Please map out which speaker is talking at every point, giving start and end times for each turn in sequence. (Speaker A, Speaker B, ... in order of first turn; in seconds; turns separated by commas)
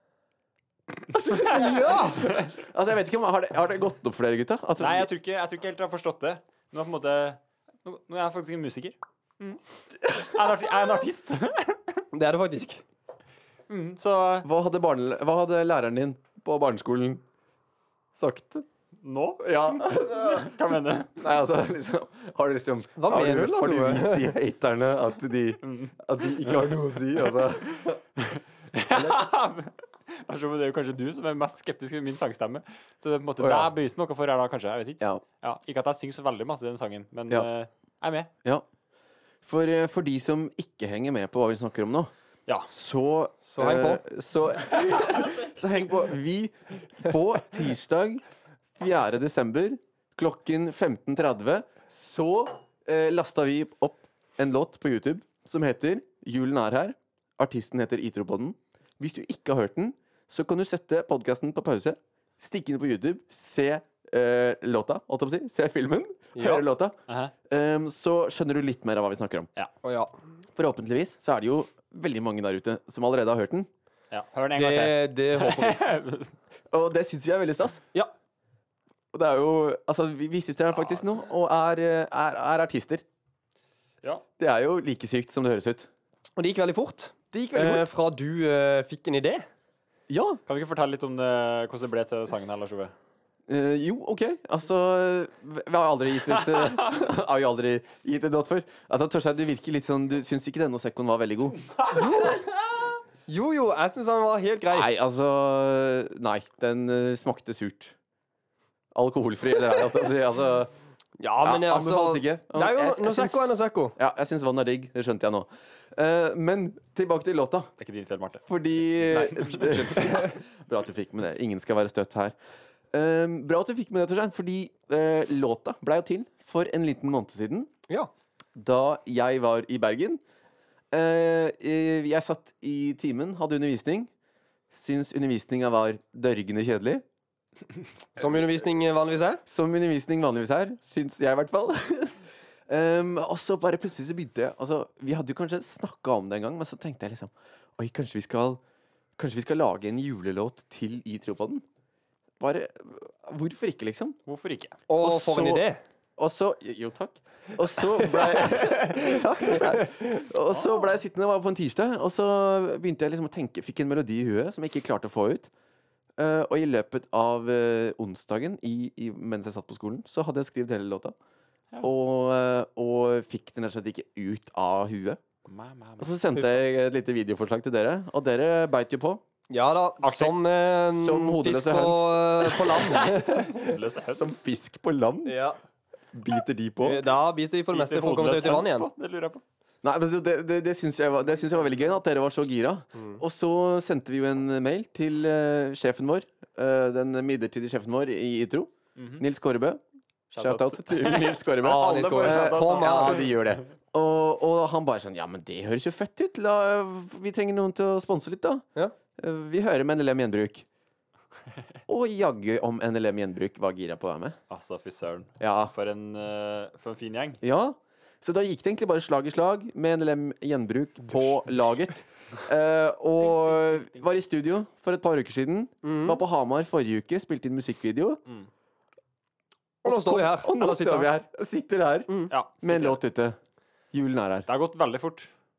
Speaker A: 1.0-5.1, Speaker B: 1.6-1.9, Speaker C: 4.8-12.0, Speaker B: 12.1-12.8, Speaker C: 13.7-14.5, Speaker A: 14.4-17.2, Speaker A: 18.1-18.6, Speaker C: 19.0-21.2, Speaker A: 19.4-20.5, Speaker A: 21.2-28.0, Speaker B: 23.0-24.3, Speaker C: 25.6-25.9, Speaker C: 28.2-38.3, Speaker A: 28.9-29.3, Speaker A: 33.4-33.7, Speaker A: 39.4-42.1, Speaker A: 42.7-48.2, Speaker B: 43.5-44.0, Speaker A: 48.8-69.5, Speaker B: 66.3-66.6, Speaker C: 67.1-67.3, Speaker B: 69.8-70.1, Speaker A: 70.6-73.7, Speaker C: 74.1-76.3, Speaker B: 74.5-75.8, Speaker A: 76.7-77.8, Speaker A: 79.1-83.0, Speaker C: 80.8-81.1, Speaker A: 84.4-85.9, Speaker B: 86.4-89.5, Speaker A: 87.3-87.9, Speaker A: 90.1-90.4, Speaker C: 90.5-92.9, Speaker A: 93.5-102.5, Speaker B: 101.9-102.4, Speaker B: 103.3-104.9, Speaker A: 104.7-107.9, Speaker A: 108.9-110.7, Speaker B: 111.2-114.0, Speaker A: 111.4-117.7, Speaker C: 117.8-118.4, Speaker A: 118.5-122.3, Speaker C: 119.0-119.9, Speaker A: 122.9-127.7, Speaker A: 128.6-130.2, Speaker A: 130.9-134.1, Speaker A: 134.7-137.0, Speaker B: 138.2-139.4, Speaker A: 139.5-148.6, Speaker A: 149.2-151.6, Speaker A: 152.4-154.2, Speaker C: 154.3-154.8, Speaker B: 154.9-155.8, Speaker A: 155.0-155.6, Speaker A: 156.2-165.5, Speaker B: 158.6-159.6, Speaker A: 166.2-171.2, Speaker A: 171.8-175.2, Speaker C: 175.5-176.1, Speaker A: 176.0-179.2, Speaker B: 179.5-183.8, Speaker C: 180.0-180.4, Speaker A: 180.9-183.5, Speaker C: 182.8-184.4, Speaker A: 184.1-185.4, Speaker B: 185.2-185.6, Speaker A: 186.1-187.0, Speaker B: 186.8-188.9, Speaker C: 187.7-189.4, Speaker A: 189.8-199.8, Speaker B: 192.9-193.2, Speaker C: 199.0-199.2, Speaker C: 200.3-203.3, Speaker A: 200.4-208.6, Speaker B: 201.6-203.3, Speaker A: 209.2-210.7, Speaker A: 211.9-214.4, Speaker C: 214.5-217.4, Speaker A: 215.4-215.7, Speaker A: 217.4-228.2, Speaker B: 225.8-226.2, Speaker B: 229.8-231.1, Speaker A: 229.8-233.4, Speaker C: 232.3-233.0, Speaker A: 233.9-234.5, Speaker C: 234.5-235.3